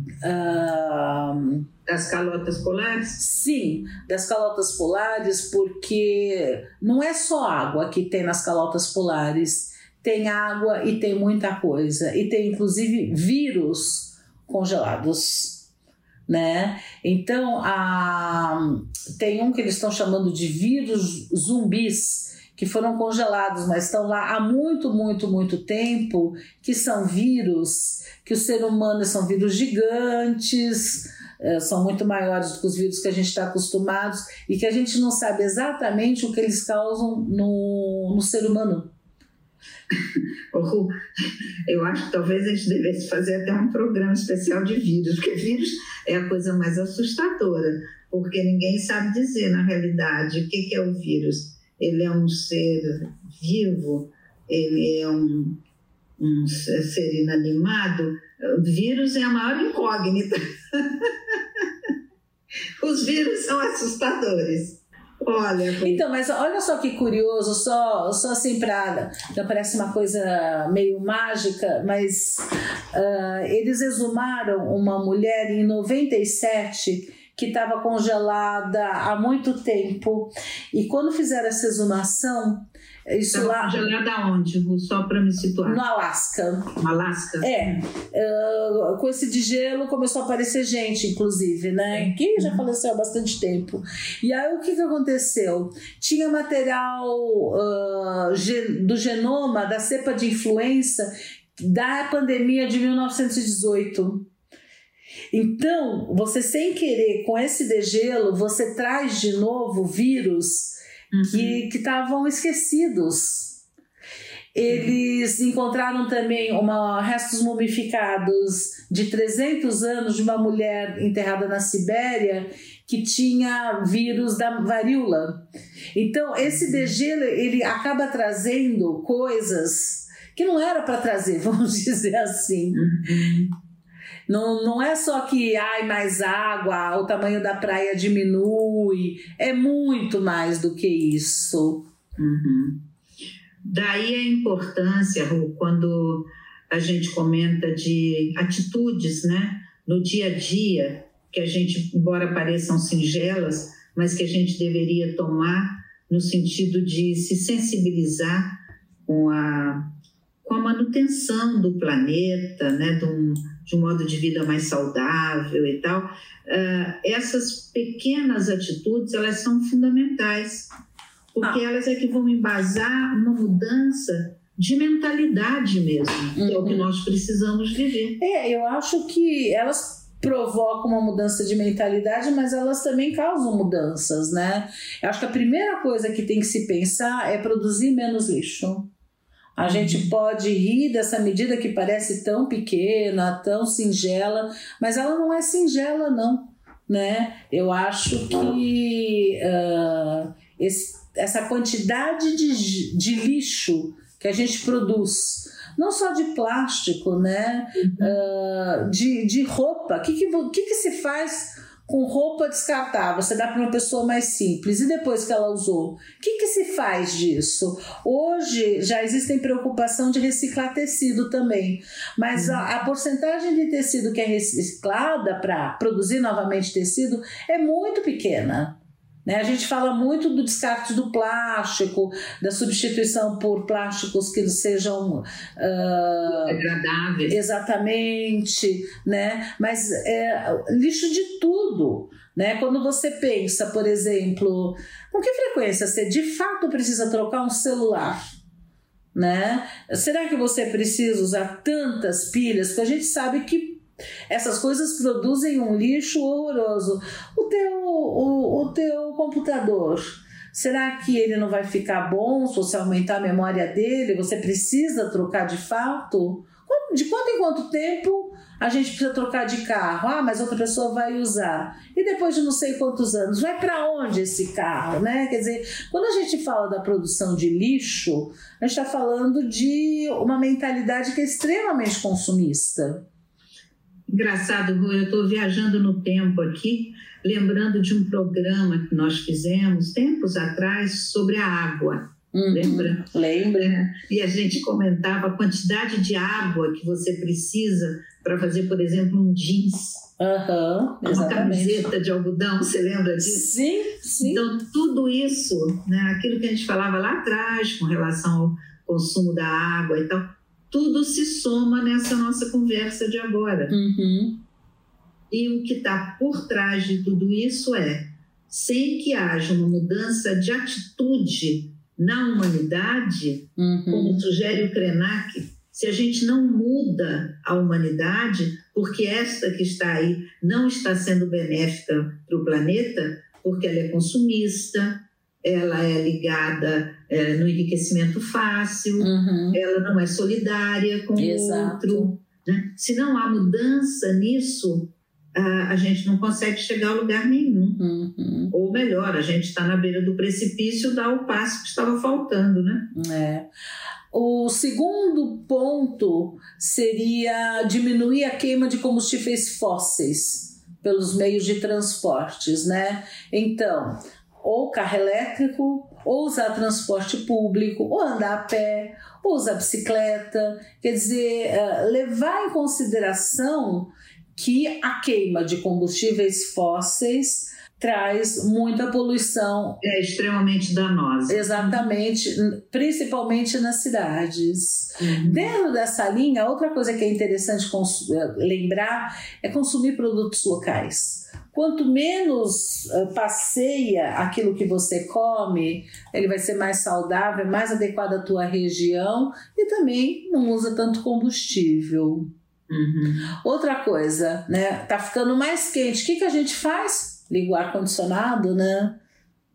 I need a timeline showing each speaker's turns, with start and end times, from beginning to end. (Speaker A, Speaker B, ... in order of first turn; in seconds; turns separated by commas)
Speaker A: 0.2-1.6, Speaker B: 1.9-3.2, Speaker A: 3.2-15.7, Speaker A: 16.3-38.9, Speaker B: 40.0-40.9, Speaker B: 41.7-55.6, Speaker B: 56.2-61.3, Speaker B: 62.8-66.0, Speaker A: 65.8-83.8, Speaker B: 83.3-85.8, Speaker A: 85.6-86.7, Speaker B: 86.8-87.8, Speaker A: 87.4-104.3, Speaker B: 91.9-92.6, Speaker A: 105.3-113.6, Speaker B: 111.1-111.6, Speaker A: 114.5-132.9, Speaker B: 114.7-114.9, Speaker B: 126.4-126.9, Speaker B: 132.7-133.5, Speaker A: 134.3-141.8, Speaker B: 142.2-142.8, Speaker B: 143.6-158.6, Speaker B: 159.1-159.9, Speaker B: 160.4-170.7, Speaker B: 171.3-178.2, Speaker A: 176.4-176.9, Speaker A: 178.2-188.9, Speaker A: 189.6-236.6, Speaker B: 189.6-190.1, Speaker B: 207.8-208.2, Speaker B: 222.3-222.6, Speaker B: 236.3-237.4, Speaker A: 237.3-248.3, Speaker A: 249.1-283.1, Speaker B: 284.1-293.1, Speaker A: 292.3-293.8, Speaker B: 293.6-300.1, Speaker A: 300.2-301.9, Speaker B: 301.1-303.5, Speaker A: 303.2-304.4, Speaker B: 304.2-313.7, Speaker A: 313.7-314.4, Speaker B: 315.3-347.8, Speaker A: 323.6-324.2, Speaker A: 339.0-339.6, Speaker A: 341.2-342.1, Speaker A: 347.8-348.5, Speaker B: 348.5-352.9, Speaker A: 352.9-353.5, Speaker A: 354.1-379.8, Speaker B: 379.8-381.9, Speaker A: 381.3-402.3, Speaker B: 385.0-385.5, Speaker B: 402.7-403.3, Speaker A: 403.4-409.0